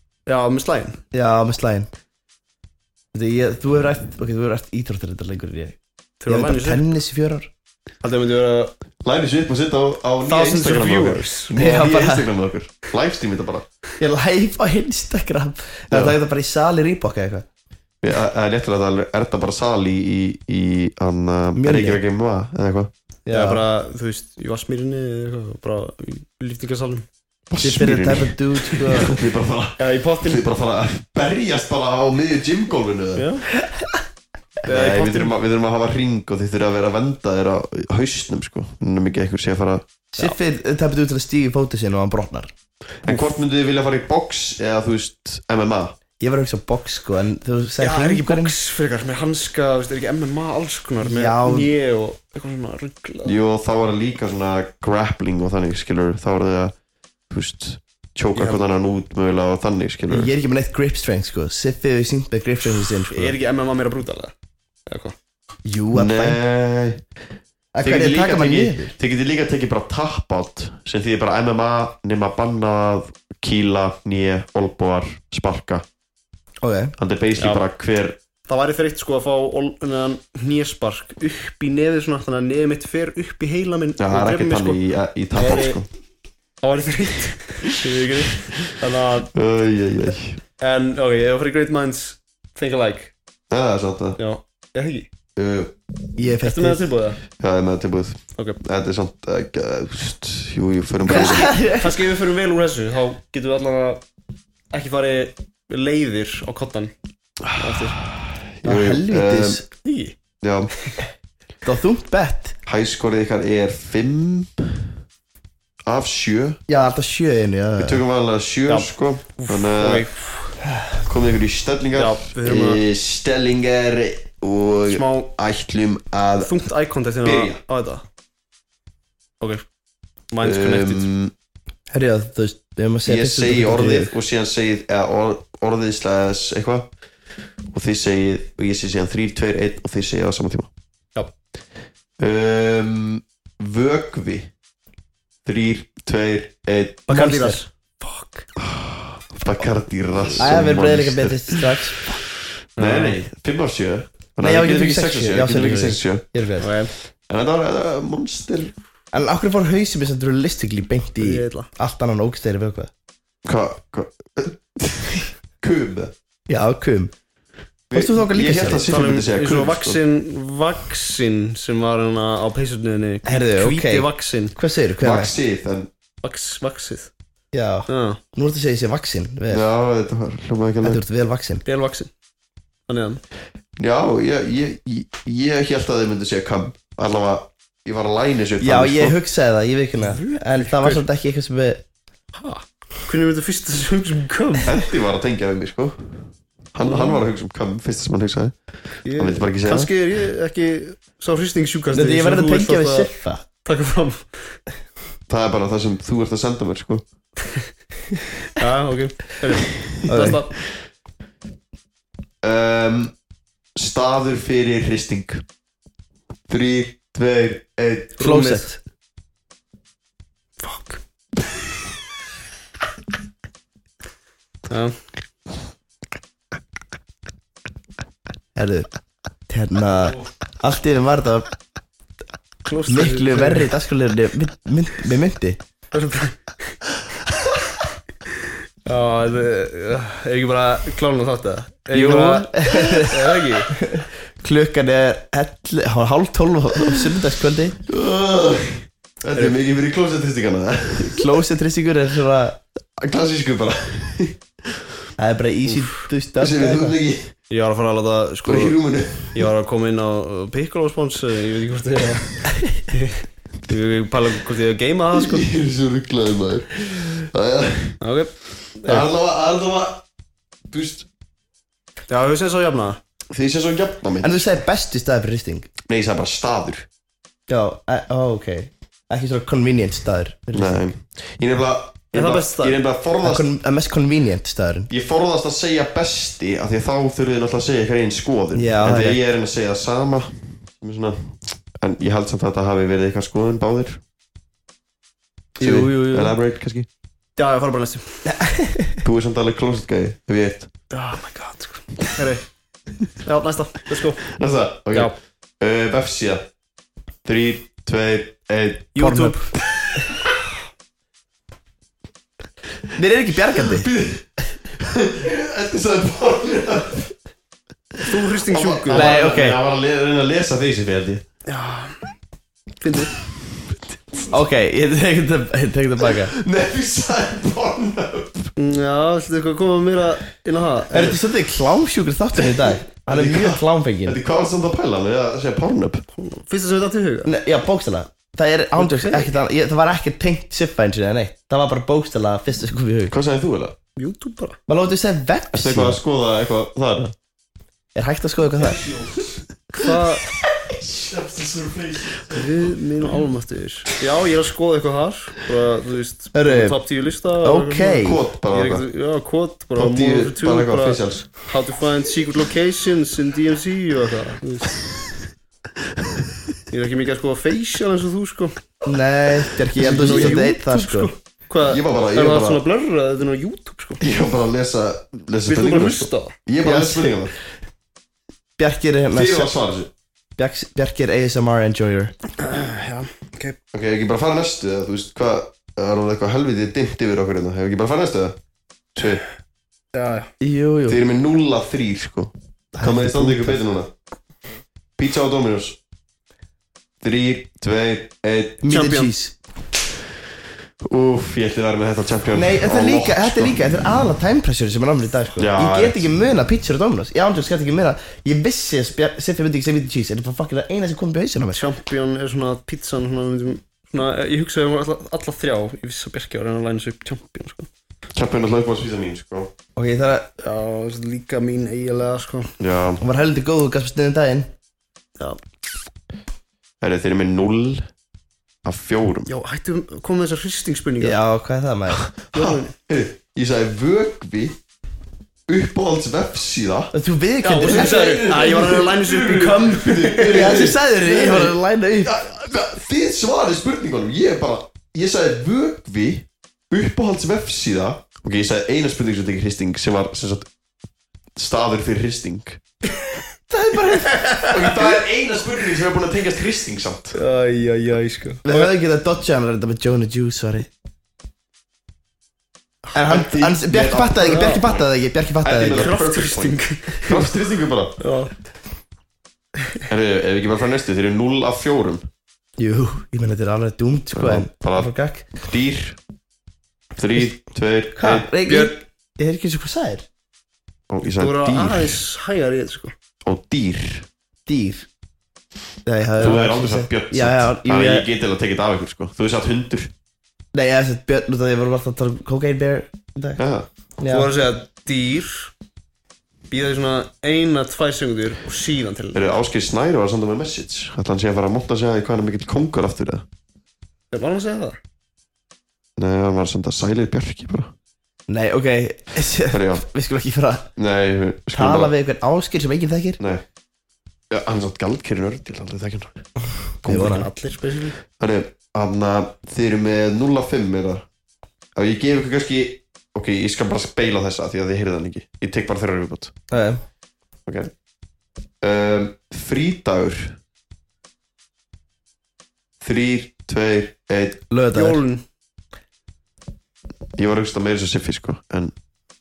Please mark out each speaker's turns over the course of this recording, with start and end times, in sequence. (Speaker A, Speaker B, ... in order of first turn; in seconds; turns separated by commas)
Speaker A: 0.3-1.0, Speaker B: 1.1-1.9, Speaker B: 3.1-7.5, Speaker A: 6.2-6.9, Speaker A: 8.0-8.7, Speaker C: 9.0-13.7, Speaker A: 10.2-11.6, Speaker B: 11.5-12.3, Speaker B: 14.0-17.4, Speaker C: 15.9-16.2, Speaker C: 18.0-22.9, Speaker B: 21.6-22.0, Speaker B: 23.3-23.6, Speaker A: 23.3-27.1, Speaker C: 27.5-33.3, Speaker B: 27.6-29.1, Speaker A: 29.8-30.4, Speaker A: 33.2-33.5, Speaker A: 34.6-35.3, Speaker C: 34.6-39.9, Speaker B: 40.1-42.5, Speaker C: 43.0-46.0, Speaker B: 46.2-48.5, Speaker A: 47.8-53.4, Speaker B: 51.0-51.7, Speaker C: 53.2-56.7, Speaker C: 57.3-60.3, Speaker A: 58.4-58.6, Speaker B: 60.1-63.3, Speaker A: 62.7-64.3, Speaker A: 64.9-65.2, Speaker B: 65.7-66.4, Speaker C: 65.9-67.0, Speaker B: 67.7-68.9, Speaker C: 67.8-75.8, Speaker B: 76.6-76.9, Speaker C: 77.0-78.2, Speaker A: 77.4-77.6, Speaker A: 78.5-84.8, Speaker C: 84.0-85.9, Speaker A: 85.3-85.8, Speaker A: 86.6-89.3, Speaker C: 89.3-90.4, Speaker A: 90.6-93.1, Speaker C: 93.5-94.2, Speaker A: 94.2-95.1, Speaker C: 95.4-95.7, Speaker B: 96.2-96.8, Speaker A: 96.4-97.2, Speaker C: 97.4-101.6, Speaker B: 101.1-102.0, Speaker A: 101.1-104.0, Speaker A: 104.7-106.9, Speaker C: 107.4-109.6, Speaker A: 107.6-108.0, Speaker B: 108.6-109.7, Speaker A: 109.8-110.2, Speaker C: 110.4-110.7, Speaker B: 111.6-112.6, Speaker C: 112.7-114.9, Speaker C: 115.9-116.6, Speaker B: 116.7-118.0, Speaker C: 117.8-120.1, Speaker A: 118.7-120.6, Speaker C: 121.0-126.6, Speaker A: 121.9-122.8, Speaker A: 124.9-125.3, Speaker A: 126.4-128.0, Speaker C: 127.2-127.6, Speaker A: 129.4-129.7, Speaker A: 130.3-131.1, Speaker C: 130.4-131.3, Speaker B: 131.9-134.1, Speaker C: 133.1-136.9, Speaker C: 137.7-140.7, Speaker C: 142.2-144.5, Speaker C: 145.4-147.1, Speaker A: 147.1-148.5, Speaker B: 147.1-147.6, Speaker C: 148.6-152.2, Speaker B: 150.4-152.1, Speaker A: 152.8-153.2, Speaker C: 152.8-156.3, Speaker B: 154.4-156.7, Speaker A: 156.6-156.9, Speaker C: 157.2-158.8, Speaker B: 159.1-162.9, Speaker A: 161.2-161.7, Speaker C: 163.4-166.1, Speaker B: 166.5-167.1, Speaker C: 167.9-170.0, Speaker B: 167.9-168.9, Speaker A: 168.8-174.6, Speaker B: 173.2-175.3, Speaker C: 175.0-175.9, Speaker A: 176.2-177.1, Speaker B: 177.5-179.7, Speaker A: 177.9-178.2, Speaker C: 179.5-181.0, Speaker B: 180.8-181.6, Speaker A: 181.7-182.1, Speaker A: 182.9-183.2, Speaker C: 183.8-189.2, Speaker B: 188.6-191.8, Speaker A: 190.0-191.0, Speaker A: 192.3-194.8, Speaker C: 194.6-199.9, Speaker A: 196.8-197.2, Speaker A: 199.0-204.6, Speaker B: 201.9-203.4, Speaker C: 205.3-207.1, Speaker A: 208.5-210.5, Speaker B: 210.1-210.4, Speaker C: 212.4-213.1, Speaker C: 213.8-215.4, Speaker C: 216.5-218.1, Speaker A: 218.2-218.7, Speaker B: 218.2-218.8, Speaker A: 220.6-221.0, Speaker A: 224.7-225.0, Speaker B: 228.6-228.9, Speaker B: 229.5-231.5, Speaker A: 232.7-233.7, Speaker B: 232.9-235.6, Speaker A: 235.9-236.8, Speaker A: 238.3-243.8, Speaker C: 242.0-242.4, Speaker B: 242.1-247.8, Speaker C: 247.9-251.2, Speaker B: 251.0-252.6, Speaker C: 253.0-254.4, Speaker B: 255.2-257.0, Speaker A: 255.7-256.0, Speaker C: 256.4-257.3, Speaker A: 257.5-265.4, Speaker C: 258.5-259.5, Speaker C: 265.3-268.0, Speaker A: 268.0-269.1, Speaker C: 268.9-270.0, Speaker C: 270.7-271.1, Speaker A: 272.1-273.0, Speaker C: 273.3-274.5, Speaker B: 274.2-275.7, Speaker C: 275.9-276.9, Speaker B: 277.5-280.9, Speaker C: 280.5-283.5, Speaker A: 282.1-282.8, Speaker B: 283.2-284.9, Speaker C: 284.9-294.0, Speaker B: 288.5-289.2, Speaker B: 295.6-296.4, Speaker C: 295.6-296.9, Speaker A: 297.4-298.3, Speaker B: 298.3-299.0, Speaker C: 299.0-300.7, Speaker A: 300.9-302.4, Speaker A: 303.2-304.3, Speaker C: 304.3-306.5, Speaker C: 307.2-308.9, Speaker A: 308.9-309.5, Speaker B: 309.0-309.4, Speaker C: 309.7-310.3, Speaker B: 312.9-313.9, Speaker C: 313.7-317.1, Speaker C: 318.0-321.2, Speaker A: 318.1-319.2, Speaker B: 318.9-319.6, Speaker A: 321.5-322.0, Speaker A: 322.8-323.1, Speaker B: 324.3-326.3, Speaker C: 326.2-328.5, Speaker A: 328.6-331.2, Speaker B: 330.9-334.2, Speaker C: 333.1-336.1, Speaker A: 336.2-337.3, Speaker B: 337.2-343.1, Speaker A: 338.8-339.3, Speaker C: 343.1-343.8, Speaker A: 344.0-344.6, Speaker B: 344.7-346.0, Speaker C: 345.5-347.1, Speaker B: 347.9-349.1, Speaker A: 349.7-350.2, Speaker C: 350.8-352.4, Speaker A: 352.3-364.8, Speaker B: 356.3-358.2, Speaker C: 358.0-358.9, Speaker C: 359.8-361.4, Speaker A: 366.7-368.6, Speaker B: 368.9-371.1, Speaker A: 369.8-374.0, Speaker C: 369.9-370.4, Speaker C: 371.6-372.6, Speaker C: 374.0-377.4, Speaker A: 375.5-376.4, Speaker B: 376.6-377.2, Speaker B: 378.6-379.5, Speaker C: 379.1-379.9, Speaker B: 380.4-382.1, Speaker A: 382.4-383.6, Speaker C: 383.7-388.4, Speaker C: 388.9-389.2, Speaker A: 389.9-390.3, Speaker B: 390.4-391.0, Speaker C: 390.9-393.9, Speaker B: 392.8-393.6, Speaker C: 395.0-395.8, Speaker C: 397.0-398.6, Speaker B: 398.6-399.3, Speaker A: 398.7-399.1, Speaker C: 400.8-403.6, Speaker B: 402.3-411.6, Speaker C: 405.4-406.0, Speaker A: 411.5-417.7, Speaker C: 418.1-419.5, Speaker B: 419.8-420.3, Speaker A: 420.4-422.5, Speaker C: 422.6-423.0, Speaker B: 423.0-424.5, Speaker C: 426.8-427.9, Speaker C: 428.6-429.3, Speaker A: 429.3-431.2, Speaker B: 431.0-432.0, Speaker C: 432.1-434.6, Speaker A: 432.3-432.7, Speaker C: 435.5-436.9, Speaker B: 436.9-438.8, Speaker A: 437.4-440.6, Speaker C: 437.6-450.5, Speaker B: 440.3-442.2, Speaker C: 451.4-452.6, Speaker B: 453.5-454.9, Speaker A: 453.7-454.5, Speaker C: 454.4-457.2, Speaker A: 457.1-458.7, Speaker B: 458.4-460.7, Speaker A: 462.9-463.3, Speaker B: 462.9-465.9, Speaker C: 463.1-464.9, Speaker A: 464.2-464.7, Speaker C: 465.4-468.0, Speaker A: 465.8-467.3, Speaker A: 468.0-468.3, Speaker C: 469.9-472.1, Speaker B: 472.6-475.3, Speaker C: 474.1-476.0, Speaker C: 477.0-478.3, Speaker B: 478.0-480.1, Speaker A: 478.5-478.7, Speaker C: 480.9-482.0, Speaker A: 481.1-482.9, Speaker C: 483.2-484.1, Speaker B: 484.5-484.9, Speaker B: 485.9-488.1, Speaker C: 486.2-489.9, Speaker B: 490.5-493.4, Speaker C: 493.4-493.7, Speaker B: 494.0-494.3, Speaker A: 494.1-495.5, Speaker A: 496.5-499.4, Speaker C: 499.1-503.2, Speaker A: 504.1-504.8, Speaker C: 506.0-507.7, Speaker B: 508.3-510.7, Speaker C: 509.5-509.8, Speaker C: 510.8-511.9, Speaker B: 511.5-513.2, Speaker C: 514.3-516.2, Speaker B: 516.8-517.3, Speaker C: 516.9-517.2, Speaker A: 516.9-518.0, Speaker C: 518.2-521.1, Speaker C: 521.8-526.3, Speaker B: 526.5-526.8, Speaker C: 527.5-527.7, Speaker C: 528.6-530.4, Speaker C: 532.8-534.5, Speaker B: 534.5-535.0, Speaker A: 534.7-535.2, Speaker C: 537.2-538.7